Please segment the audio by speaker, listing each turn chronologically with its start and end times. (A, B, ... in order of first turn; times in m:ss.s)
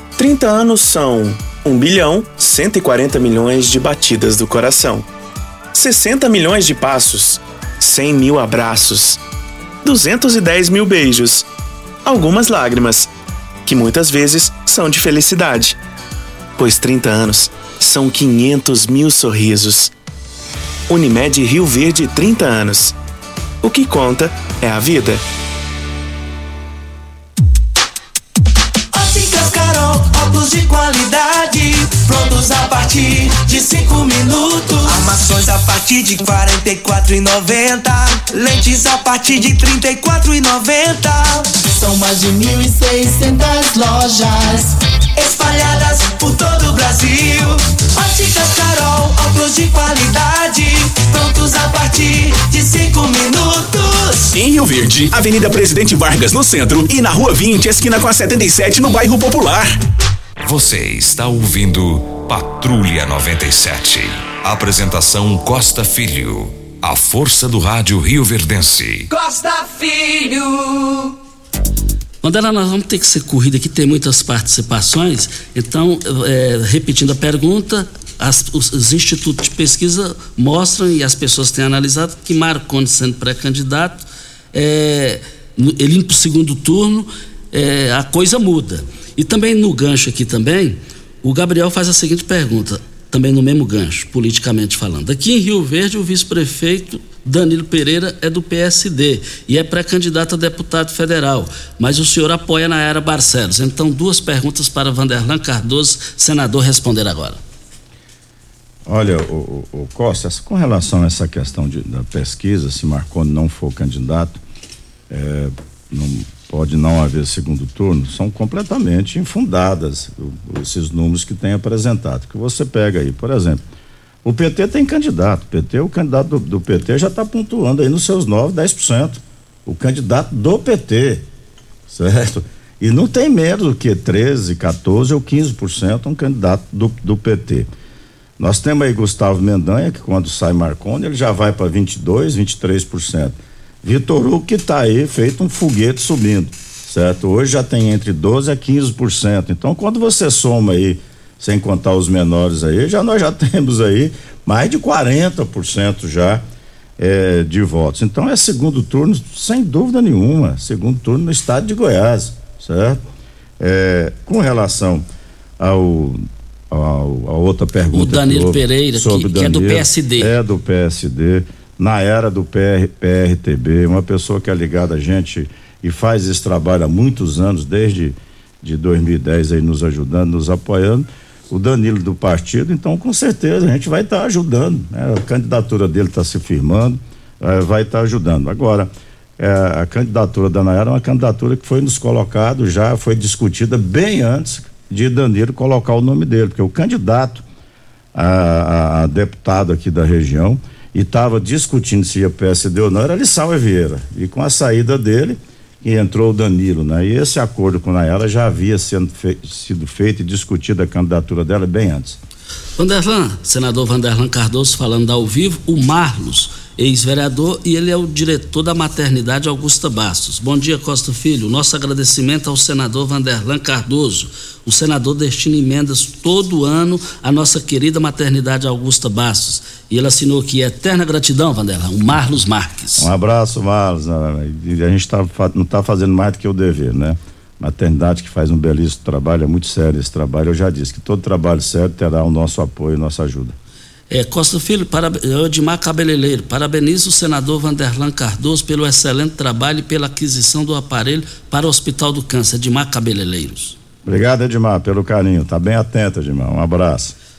0:00.2-0:05.1 A
0:05.7-0:09.2 A
0:09.8-0:11.5 A
0:12.0-0:13.1 A
0:13.7-0:15.8 A
0:16.6-0:19.9 A
0:20.9-0:22.9 A
0:23.6-0:25.2 A
0:28.9-0:54.3 B
0:54.3-0:59.7 C
1:00.4-1:09.1 D
1:09.1-1:11.1 B
1:12.2-1:47.4 E
1:48.9-1:54.4 F
1:55.1-2:03.6 F
2:04.2-2:11.3 F
2:11.9-2:17.7 F
2:18.4-2:36.4 F
2:37.0-2:43.0 F
2:43.6-2:45.1 F
2:45.6-3:17.4 F
2:47.9-2:50.3 E
3:18.1-3:32.2 F
3:32.8-3:53.1 E
3:53.0-4:03.6 F
4:04.1-4:13.8 E
4:14.0-4:17.2 F